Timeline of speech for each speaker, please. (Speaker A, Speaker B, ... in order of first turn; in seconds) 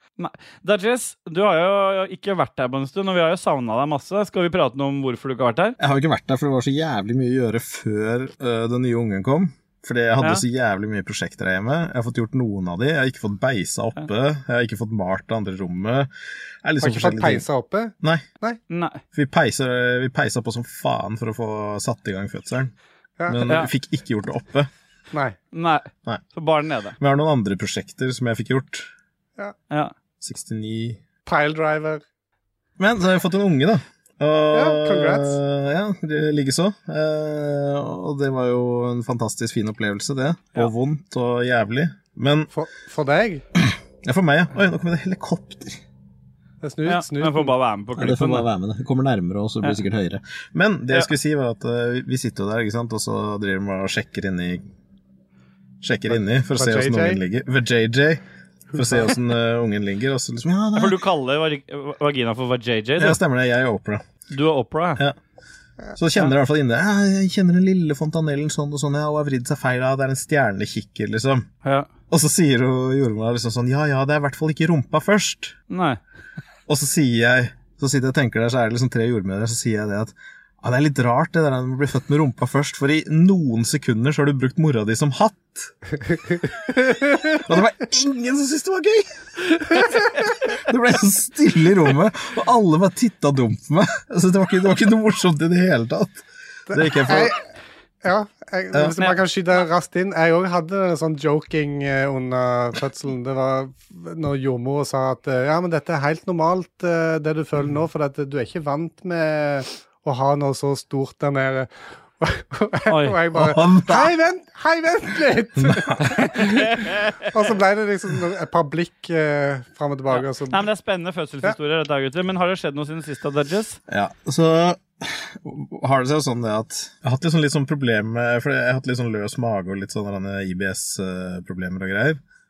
Speaker A: 0.2-5.8, 18.7-19.0, 25.5-26.9, 46.9-48.5, 60.7-63.2, 64.3-65.0, 75.7-76.0, 112.9-113.2, 116.4-117.3, 120.1-123.8
Speaker B: 5.8-16.1, 16.6-17.4, 18.0-18.2, 19.1-22.7, 23.3-24.7, 27.0-28.9, 30.2-31.0, 32.8-42.5, 43.6-45.8, 48.0-54.6, 55.8-58.2, 58.7-61.0, 63.0-64.1, 65.9-71.5, 72.1-75.5, 76.7-85.7, 87.4-89.1, 90.5-97.3, 113.3-114.1, 115.6-116.2, 123.9-132.2
Speaker C: 16.8-18.6, 23.2-23.4, 25.1-25.4, 31.2-32.0, 34.5-35.4, 42.5-43.4, 46.6-47.5, 56.1-57.2, 86.9-87.2, 96.7-97.5, 98.0-116.7, 117.2-120.6